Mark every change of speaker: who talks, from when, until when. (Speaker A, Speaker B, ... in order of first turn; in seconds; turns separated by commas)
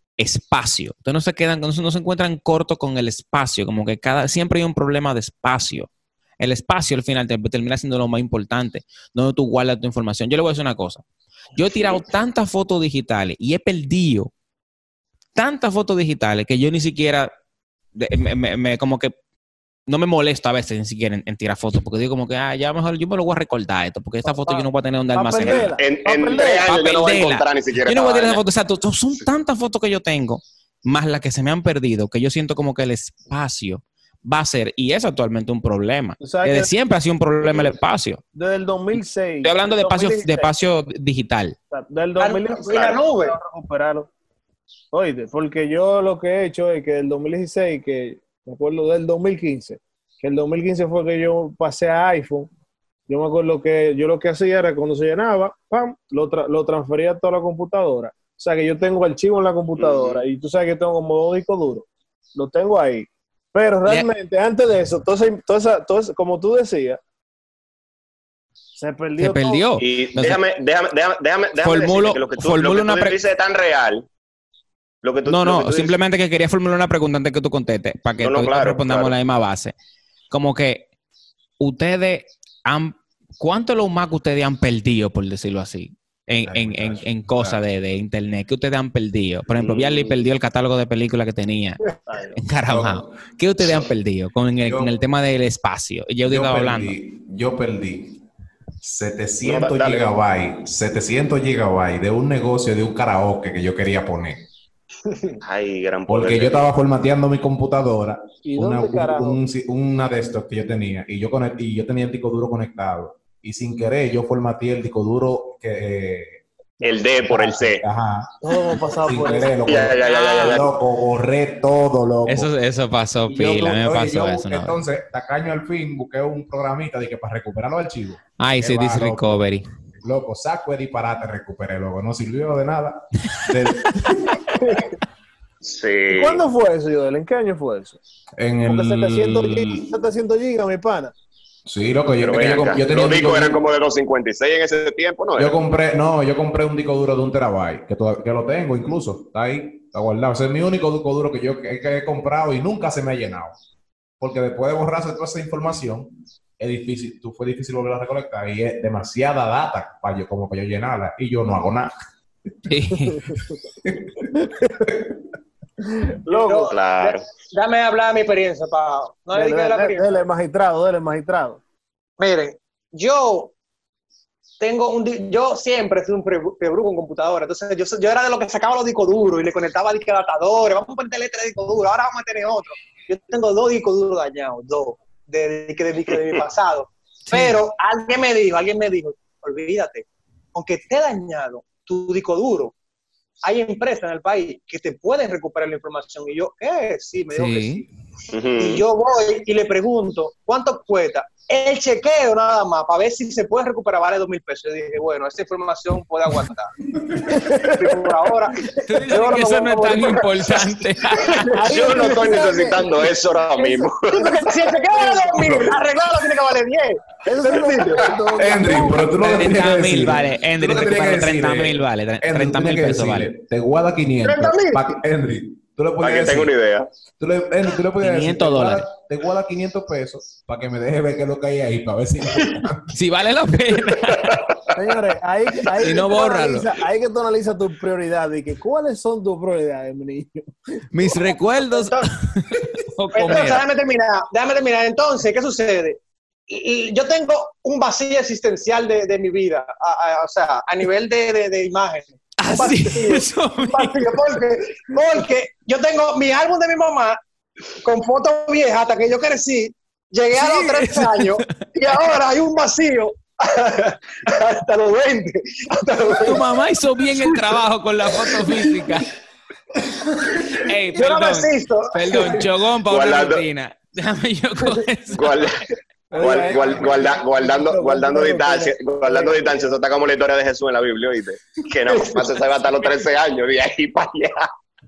Speaker A: 0.2-5.9, Speaker A: 6.4-11.0, Speaker A: 11.5-14.3, Speaker A: 15.3-17.3, Speaker A: 17.9-19.1, Speaker A: 19.9-25.7, Speaker B: 24.3-26.7, Speaker C: 25.4-28.4, Speaker A: 26.6-38.2, Speaker B: 36.2-36.7, Speaker C: 37.5-37.7, Speaker B: 38.3-40.5, Speaker A: 39.4-41.6, Speaker B: 41.7-44.1, Speaker D: 42.2-43.4, Speaker B: 44.9-52.5, Speaker B: 53.1-67.0, Speaker C: 59.8-60.2, Speaker B: 68.8-69.7, Speaker A: 69.2-70.4, Speaker C: 69.8-74.1, Speaker A: 71.6-73.2, Speaker C: 75.0-75.9, Speaker A: 75.3-79.7, Speaker C: 78.2-79.1, Speaker A: 80.3-80.9, Speaker A: 81.6-96.9, Speaker E: 86.4-87.6, Speaker C: 89.6-90.2, Speaker B: 92.1-92.4, Speaker E: 92.7-93.1, Speaker E: 94.7-94.9, Speaker E: 96.2-98.2, Speaker E: 98.8-104.4, Speaker C: 99.4-100.1, Speaker C: 105.4-106.7, Speaker E: 106.1-116.4, Speaker B: 108.4-109.4, Speaker C: 116.8-117.8, Speaker E: 117.2-118.3, Speaker B: 118.4-119.6, Speaker E: 119.0-122.5, Speaker C: 119.7-120.7, Speaker A: 120.0-120.6, Speaker A: 122.3-124.8, Speaker E: 123.3-129.4, Speaker A: 128.4-129.7, Speaker E: 130.0-134.4, Speaker C: 135.6-136.4, Speaker B: 136.1-138.0, Speaker E: 138.4-139.9, Speaker B: 138.7-141.1, Speaker E: 141.7-143.6, Speaker C: 142.2-145.5, Speaker E: 145.4-153.5, Speaker E: 154.2-161.9, Speaker A: 162.7-163.3, Speaker E: 163.8-164.3, Speaker B: 165.9-166.7, Speaker D: 166.3-170.1, Speaker C: 166.7-167.2, Speaker B: 169.3-171.6, Speaker D: 172.2-173.5, Speaker D: 174.6-192.7, Speaker A: 187.3-187.6, Speaker D: 193.4-197.9, Speaker A: 197.3-197.8, Speaker C: 198.3-198.8, Speaker D: 198.6-210.5, Speaker B: 207.2-207.9, Speaker A: 208.8-211.5, Speaker D: 211.2-211.5, Speaker B: 211.5-212.9, Speaker C: 211.6-214.4, Speaker D: 214.1-218.0, Speaker B: 214.8-215.7, Speaker B: 217.2-219.1, Speaker E: 218.3-226.5, Speaker A: 219.2-223.3, Speaker D: 224.2-224.9, Speaker C: 226.0-226.9, Speaker E: 227.2-232.9, Speaker A: 228.0-228.9, Speaker A: 232.9-234.5, Speaker B: 234.7-240.5, Speaker A: 235.8-236.7, Speaker A: 240.9-243.6, Speaker D: 241.6-242.1, Speaker D: 243.1-257.2, Speaker A: 252.4-254.1, Speaker D: 257.8-266.4, Speaker A: 260.3-261.7, Speaker A: 266.2-269.1, Speaker D: 270.4-272.4, Speaker A: 270.5-275.6, Speaker C: 272.9-273.4, Speaker C: 275.1-275.6, Speaker B: 276.1-279.7, Speaker C: 276.2-284.5